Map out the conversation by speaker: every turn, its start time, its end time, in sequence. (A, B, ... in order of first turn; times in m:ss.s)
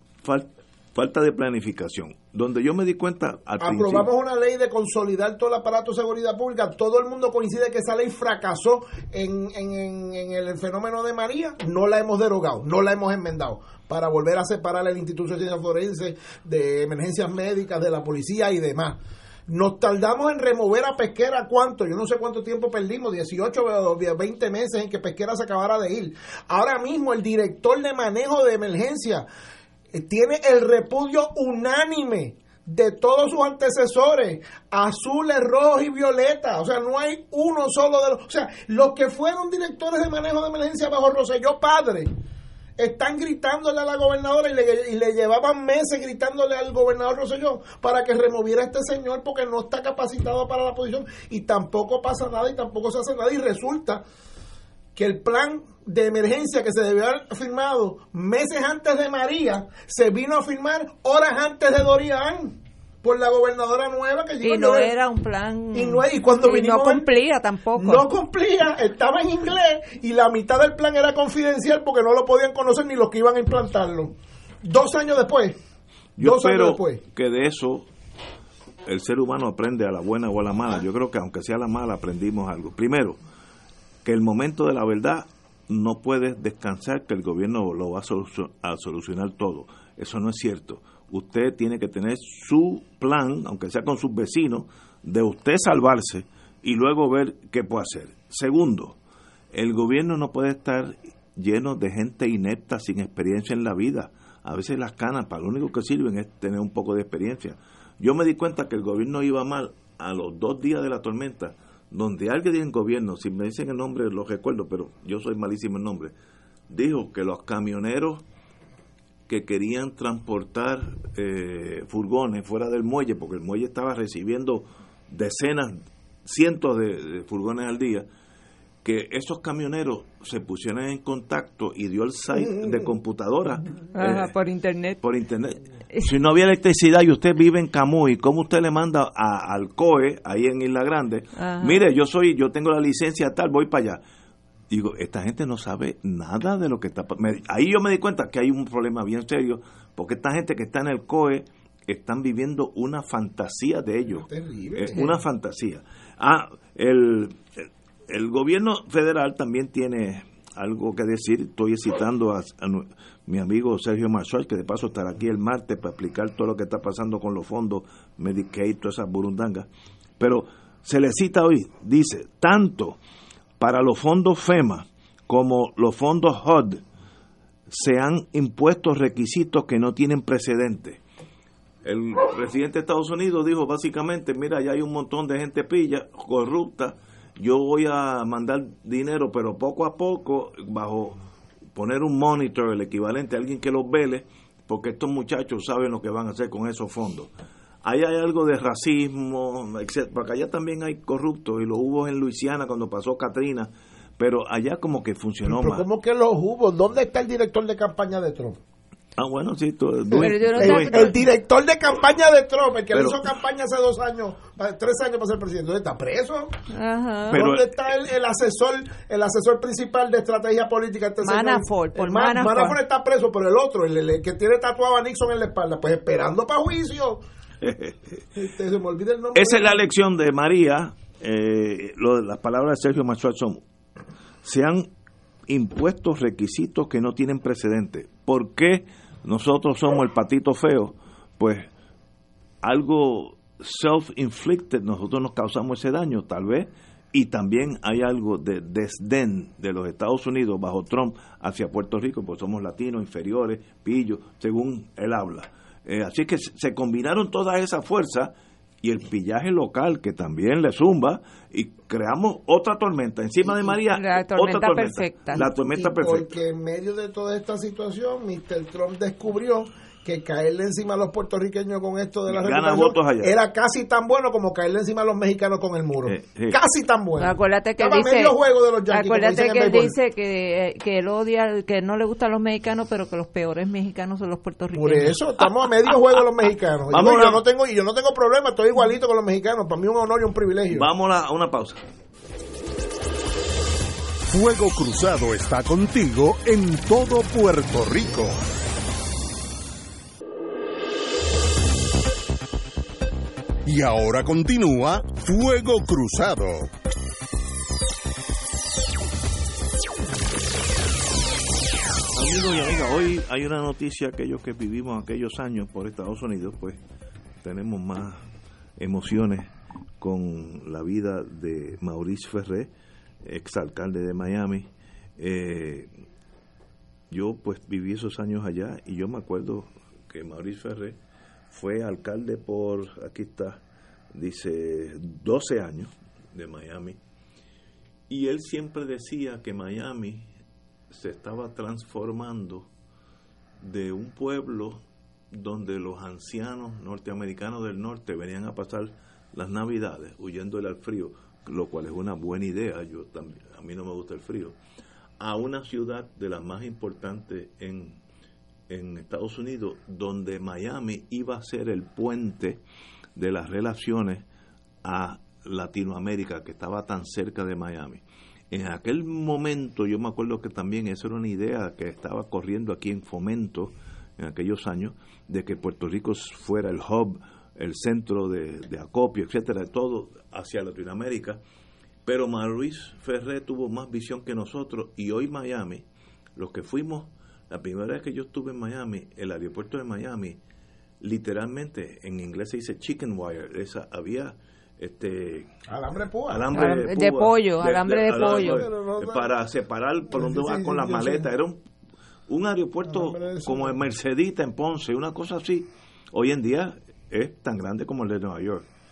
0:00.2-0:04.1 A
0:03.6-0:29.2 B
0:29.9-0:42.1 B
0:42.8-0:54.0 B
0:54.9-1:04.9 B
1:04.4-1:08.0 C
1:05.7-1:07.0 B
1:07.8-1:15.6 B
1:16.2-1:17.9 A
1:16.2-1:17.0 B
1:18.8-1:23.2 A
1:24.0-1:39.0 A
1:39.5-1:56.1 A
1:56.7-1:58.2 A
1:59.3-2:08.0 A
2:08.8-2:14.3 A
2:12.4-2:12.8 B
2:13.9-2:15.0 C
2:15.0-2:24.0 A
2:21.4-2:21.8 C
2:24.7-2:49.7 A
2:34.3-2:35.2 B
2:50.2-2:53.0 A
2:53.6-2:56.8 A
2:57.7-3:01.0 A
3:01.8-3:11.2 A
3:11.7-3:17.3 A
3:17.8-3:25.8 A
3:25.5-3:28.6 B
3:29.2-3:31.1 A
3:30.2-3:36.5 B
3:30.2-3:31.2 C
3:32.9-3:33.2 A
3:36.7-3:37.4 C
3:37.3-3:37.7 A
3:37.3-3:47.2 B
3:41.2-3:42.8 C
3:47.6-3:48.0 A
3:48.3-3:49.8 B
3:49.3-3:53.6 A
3:54.4-3:54.9 A
3:55.5-4:01.7 A
4:02.6-4:26.3 A
4:23.9-4:25.4 C
4:25.4-4:39.9 B
4:32.3-4:33.4 A
4:36.0-4:36.6 A
4:37.2-4:38.3 C
4:38.9-4:45.2 C
4:44.7-4:50.9 B
4:46.9-4:47.4 A
4:50.7-4:51.8 A
4:54.2-4:58.4 D
5:03.6-5:06.7 D
5:12.1-5:16.8 A
5:17.4-5:18.2 A
5:18.8-5:19.5 A
5:20.0-5:22.7 A
5:23.2-5:24.7 A
5:25.2-5:25.9 A
5:27.1-5:31.0 A
5:31.5-5:33.6 A
5:34.1-5:37.0 A
5:38.1-5:40.3 A
5:40.9-5:42.7 A
5:43.6-5:54.6 A
5:55.2-5:58.0 A
5:58.7-6:02.6 A
6:03.2-6:04.2 A
6:04.8-6:21.4 A
6:22.0-6:25.8 A
6:26.4-6:30.4 A
6:31.0-6:35.5 A
6:35.7-6:36.6 B
6:36.3-6:41.6 A
6:36.5-6:38.6 C
6:38.0-6:39.3 B
6:40.1-6:41.3 B
6:42.3-6:48.6 A
6:42.8-6:43.8 B